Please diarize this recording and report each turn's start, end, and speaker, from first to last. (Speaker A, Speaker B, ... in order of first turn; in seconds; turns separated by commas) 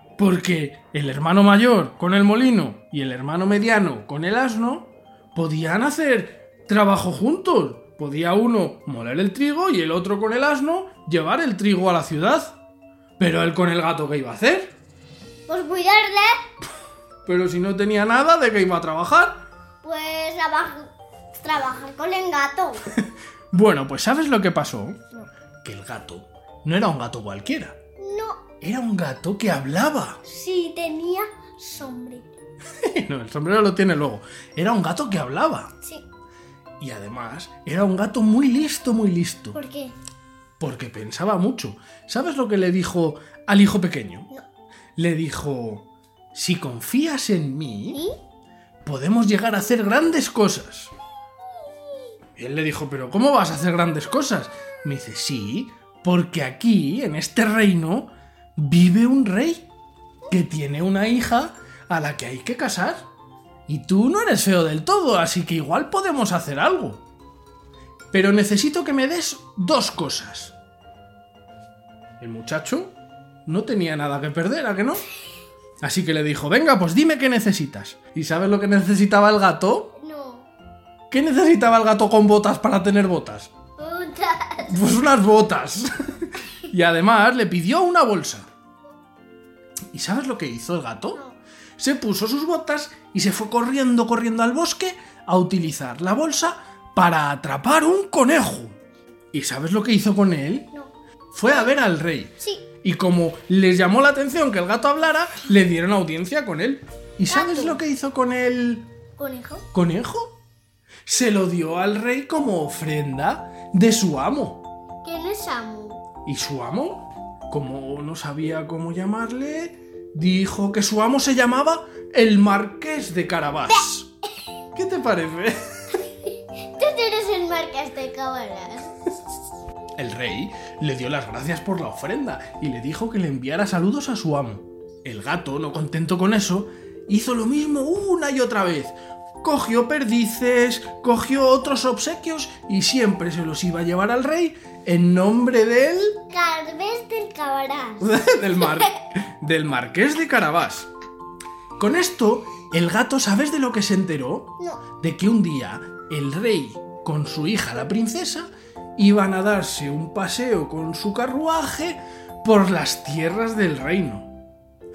Speaker A: 0.2-12.6, Speaker A: 13.2-14.7, Speaker B: 15.5-16.4, Speaker A: 17.2-19.4, Speaker B: 19.8-22.9, Speaker A: 22.9-25.0, Speaker A: 25.6-27.8, Speaker B: 28.0-28.4, Speaker A: 28.6-30.2, Speaker B: 30.2-32.4, Speaker A: 32.8-35.7, Speaker A: 36.8-39.6, Speaker B: 39.5-40.0, Speaker A: 40.6-44.3, Speaker A: 45.0-48.0, Speaker B: 47.9-48.2, Speaker A: 48.8-50.9, Speaker A: 52.4-59.7, Speaker A: 60.3-63.1, Speaker A: 63.7-67.0, Speaker A: 68.1-70.5, Speaker A: 72.2-72.9, Speaker A: 73.5-75.0, Speaker A: 75.8-79.9, Speaker B: 80.0-80.5, Speaker A: 81.1-83.5, Speaker B: 83.8-84.9, Speaker A: 84.7-88.5, Speaker A: 89.9-91.2, Speaker B: 91.1-91.4, Speaker A: 91.8-98.8, Speaker A: 99.3-100.7, Speaker A: 101.3-108.9, Speaker B: 102.4-102.7, Speaker B: 107.3-107.8, Speaker B: 109.2-109.7, Speaker A: 109.7-110.4, Speaker A: 111.1-114.6, Speaker B: 115.0-116.0, Speaker A: 116.3-124.1, Speaker A: 124.7-126.0, Speaker B: 126.3-129.1, Speaker A: 130.0-146.2, Speaker B: 146.3-148.9, Speaker A: 148.0-150.9, Speaker A: 151.8-164.3, Speaker B: 154.6-154.8